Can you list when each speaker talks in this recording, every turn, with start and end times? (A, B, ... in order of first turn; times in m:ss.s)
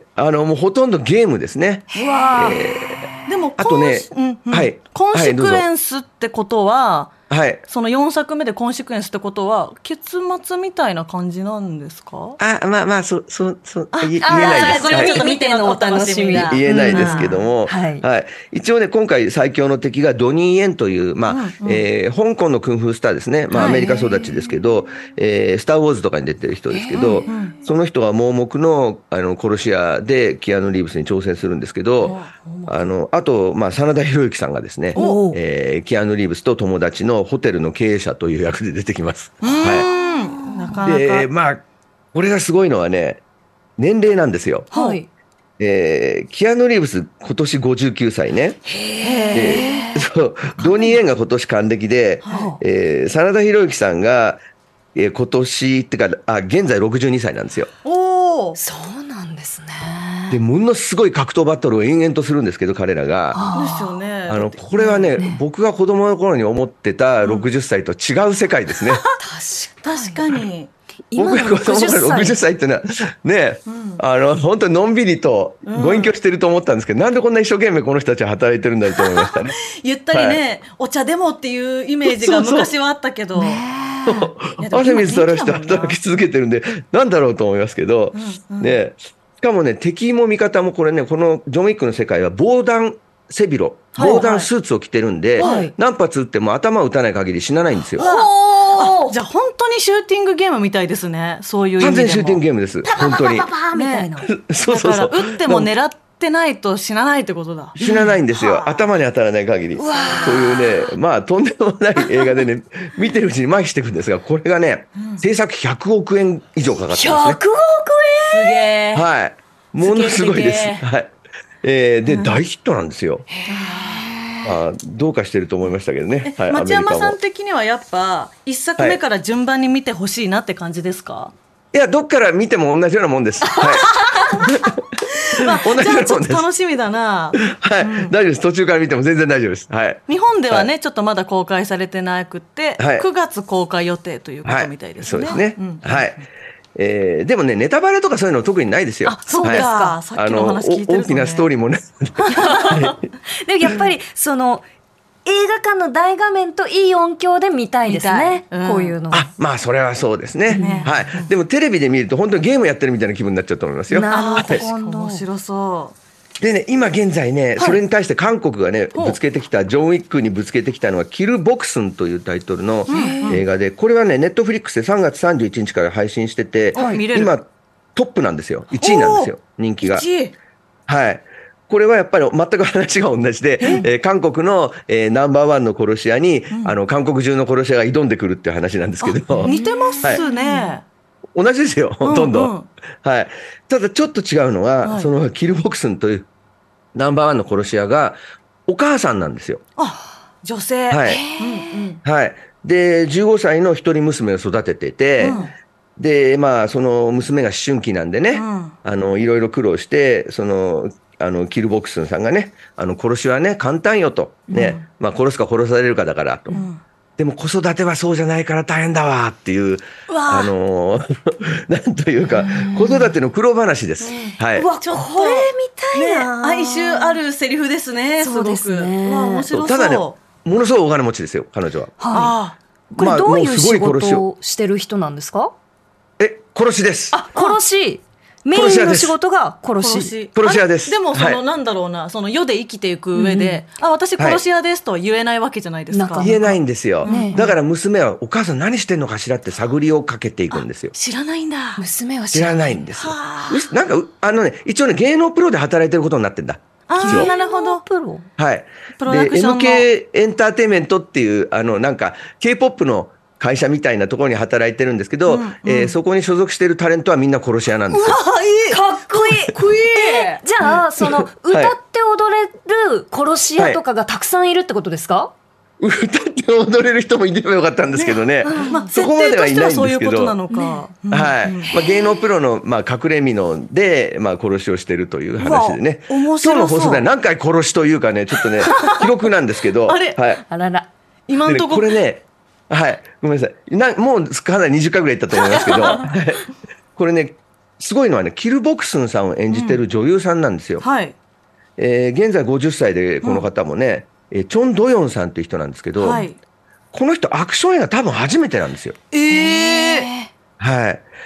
0:00.2-0:05.7 A
0:01.9-0:03.2 B
0:01.9-0:02.6 C
0:03.3-0:07.2 C
0:07.3-0:07.6 A
0:07.7-0:12.4 C
0:12.4-0:15.3 A
0:13.9-0:17.4 C
0:14.2-0:18.0 B
0:16.3-0:39.9 A
0:21.3-0:21.8 C
0:23.5-0:24.3 B
0:23.6-0:24.0 C
0:26.7-0:27.6 B
0:26.9-0:27.6 C
0:32.0-0:32.9 C
0:35.0-0:35.2 C
0:35.0-0:35.4 B
0:39.4-0:41.3 C
0:39.4-0:40.8 B
0:40.8-0:41.6 A
0:42.1-0:43.2 A
0:43.8-0:44.7 A
0:44.7-0:45.0 C
0:44.7-0:45.1 B
0:45.6-0:48.6 A
0:48.7-0:50.1 B
0:49.0-0:49.8 C
0:49.3-0:54.4 A
0:50.6-0:50.9 B
0:52.2-0:52.5 C
0:52.3-0:52.6 B
0:55.0-0:57.7 A
0:57.8-0:58.6 C
0:58.6-1:00.4 B
1:00.3-1:03.4 A
1:03.3-1:04.0 B
1:03.5-1:05.2 C
1:04.3-1:09.0 A
1:09.2-1:10.2 B
1:09.8-1:10.7 C
1:11.1-1:12.4 B
1:11.2-1:19.6 A
1:13.7-1:14.0 C
1:15.6-1:16.1 C
1:19.2-1:23.6 C
1:20.1-1:20.4 A
1:22.0-1:22.7 A
1:23.4-1:24.3 B
1:24.1-1:38.1 A
1:24.6-1:26.0 C
1:28.1-1:28.8 C
1:34.0-1:34.5 C
1:35.4-1:35.7 C
1:35.4-1:35.7 B
1:38.0-1:42.4 C
1:38.0-1:39.2 B
1:41.8-1:43.5 A
1:42.9-1:44.3 B
1:43.7-1:44.1 C
1:44.2-1:45.7 A
1:44.6-1:47.8 C
1:47.8-1:48.8 B
1:47.8-1:57.4 A
1:49.8-1:50.9 B
1:50.0-1:50.4 C
1:52.0-1:52.4 B
1:55.0-1:55.2 C
1:56.9-1:58.7 B
1:58.3-1:59.1 C
1:58.9-2:03.3 A
1:59.8-2:00.8 C
2:02.1-2:02.4 C
2:03.3-2:04.5 B
2:03.5-2:04.1 C
2:04.4-2:07.2 A
2:06.2-2:11.3 C
2:11.7-2:14.8 A
2:13.5-2:14.5 B
2:13.9-2:14.3 C
2:15.2-2:18.2 C
2:15.4-2:16.5 A
2:17.4-2:20.7 A
2:20.1-2:26.2 C
2:22.8-2:23.1 A
2:24.4-2:26.2 A
2:26.8-2:33.0 A
2:29.0-2:30.0 B
2:29.3-2:31.5 C
2:32.2-2:32.8 C
2:32.4-2:34.6 B
2:35.2-2:39.3 B
2:37.8-2:39.0 C
2:39.1-2:44.7 A
2:40.5-2:40.9 B
2:40.5-2:41.3 C
2:43.9-2:45.2 B
2:44.1-2:46.0 C
2:46.4-3:00.1 A
2:48.9-2:49.2 C
2:52.9-2:53.4 C
2:52.9-2:53.4 B
2:56.7-2:57.3 C
2:56.8-2:57.0 B
2:58.7-3:00.3 C
3:00.9-3:10.2 A
3:03.6-3:03.9 B
3:06.5-3:06.8 C
3:09.0-3:10.8 C
3:09.3-3:10.8 B
3:11.4-3:16.3 A
3:12.0-3:12.7 C
3:14.8-3:15.1 C
3:17.0-3:19.6 A
3:19.8-3:22.0 C
3:20.9-3:21.2 A
3:21.1-3:22.0 B
3:22.0-3:25.4 A
3:25.2-3:25.5 C
3:25.2-3:25.5 B
3:26.0-3:36.6 A
3:28.3-3:28.8 C
3:34.5-3:34.8 B
3:36.5-3:36.8 C
3:37.2-3:44.7 A
3:40.1-3:40.5 C
3:42.4-3:43.1 B
3:44.0-3:50.2 C
3:44.5-3:47.2 B
3:48.2-3:49.4 B
3:49.5-3:52.0 A
3:52.0-3:52.4 B
3:52.1-3:52.6 C
3:52.9-3:55.5 B
3:53.0-3:54.2 A
3:56.2-3:57.2 A
3:57.1-4:00.1 B
3:58.5-3:59.2 A
3:59.8-4:06.4 C
4:00.4-4:01.4 A
4:03.1-4:03.6 B
4:05.9-4:07.4 B
4:06.2-4:10.9 A
4:07.0-4:07.6 C
4:10.9-4:11.8 C
4:11.8-4:12.8 B
4:12.3-4:17.3 A
4:13.0-4:13.7 C
4:16.9-4:17.8 C
4:17.0-4:18.3 B
4:18.4-4:28.2 A
4:19.0-4:19.9 C
4:25.3-4:26.0 C
4:27.9-4:30.4 C
4:28.7-4:35.3 B
4:30.7-4:31.8 A
4:33.6-4:33.8 A
4:35.8-4:40.4 A
4:37.9-4:41.7 C
4:38.4-4:38.9 B
4:40.5-4:40.8 B
4:41.1-4:50.4 A
4:41.7-4:42.2 B
4:45.4-4:47.1 C
4:48.6-4:49.1 C
4:49.8-4:50.2 C
4:50.5-4:50.9 B
4:51.3-4:52.0 C
4:51.4-5:00.9 A
4:59.5-4:59.8 C
5:00.8-5:01.1 C
5:01.8-5:06.2 A
5:06.0-5:06.4 C
5:06.9-5:09.0 A
5:09.1-5:10.1 C
5:09.3-5:10.3 B
5:10.6-5:11.0 A